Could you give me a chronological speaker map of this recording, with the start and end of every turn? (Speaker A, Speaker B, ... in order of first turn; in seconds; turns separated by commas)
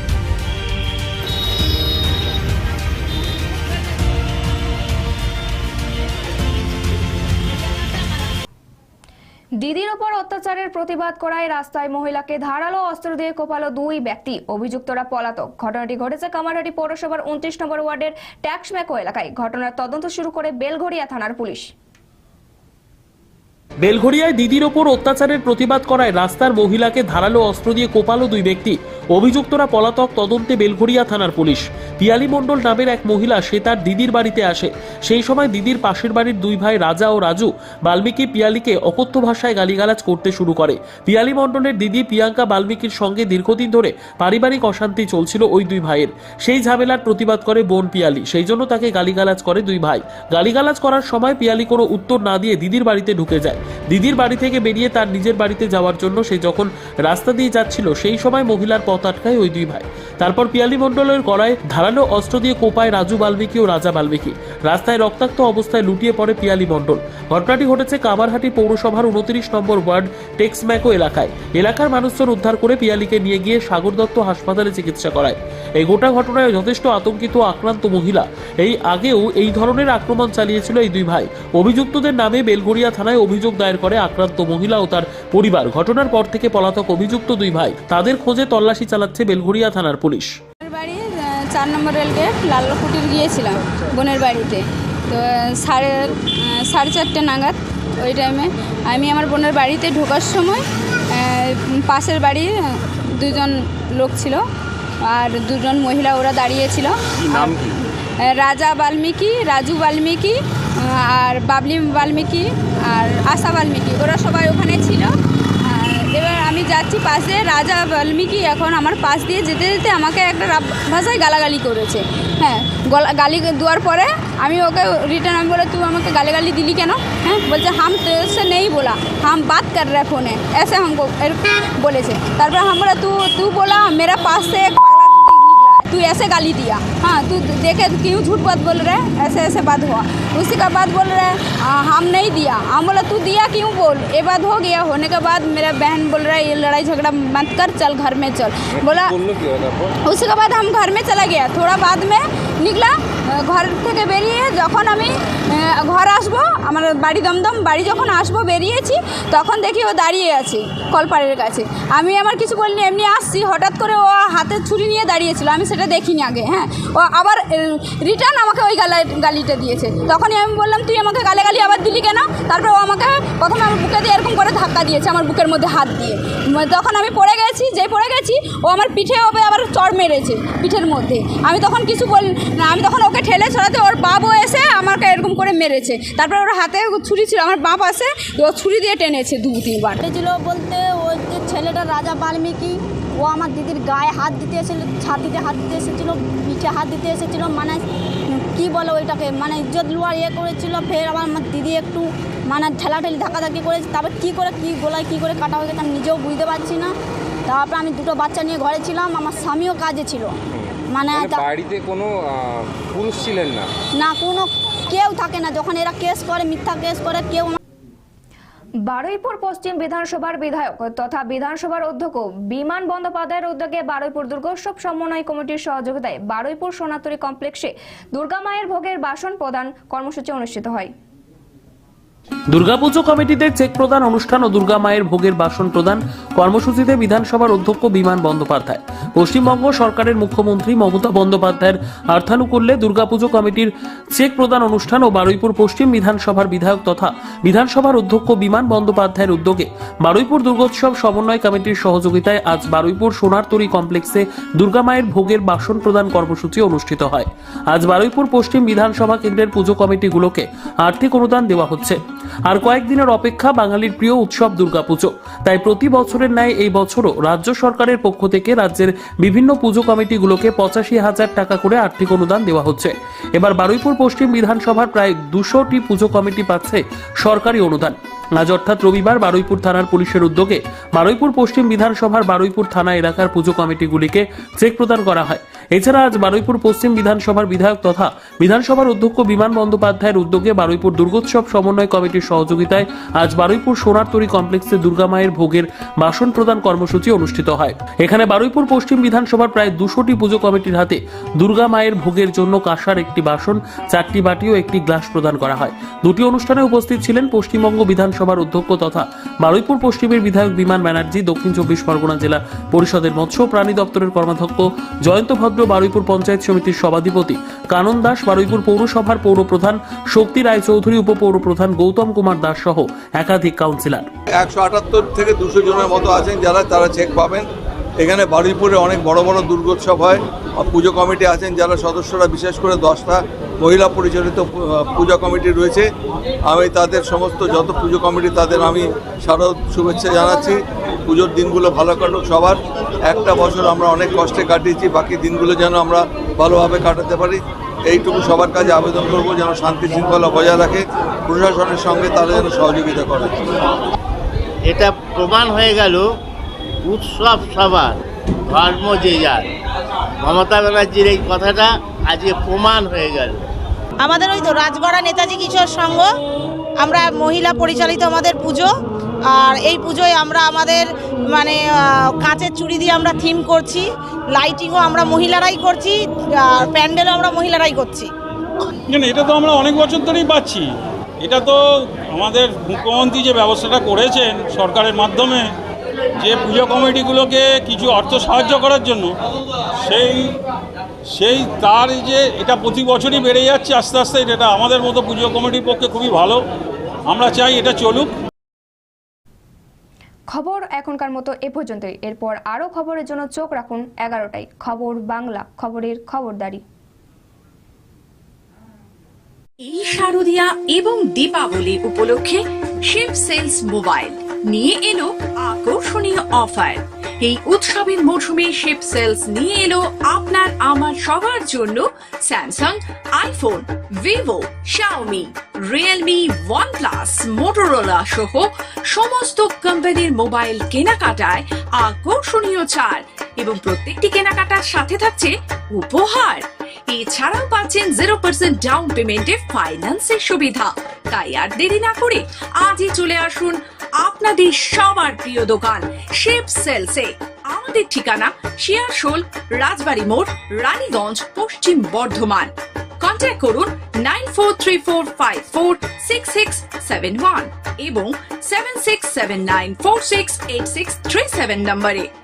Speaker A: 9.6-21.7, Speaker B: 23.8-90.4, Speaker C: 90.6-104.4, Speaker C: 105.0-115.1, Speaker D: 107.3-107.8, Speaker C: 115.6-149.1, Speaker D: 148.7-149.9, Speaker C: 150.0-190.0, Speaker E: 189.9-206.9, Speaker E: 207.5-210.4, Speaker D: 210.5-213.7, Speaker E: 210.9-211.4, Speaker E: 213.9-217.6, Speaker A: 218.9-230.9, Speaker B: 232.5-324.1, Speaker F: 324.4-327.4, Speaker F: 328.0-335.8, Speaker F: 336.5-340.6, Speaker F: 341.1-342.6, Speaker F: 343.1-353.3, Speaker G: 354.7-356.1, Speaker G: 356.8-357.9, Speaker G: 358.5-359.4, Speaker G: 360.2-363.4, Speaker H: 364.0-366.1, Speaker H: 366.8-368.7, Speaker H: 369.4-371.6, Speaker H: 372.2-373.8, Speaker H: 374.3-375.9, Speaker H: 376.6-378.1, Speaker I: 378.9-380.7, Speaker I: 381.2-385.4, Speaker I: 386.2-389.1, Speaker I: 389.8-390.3, Speaker I: 391.1-396.4, Speaker I: 397.1-398.1, Speaker A: 400.3-406.6, Speaker J: 409.6-462.1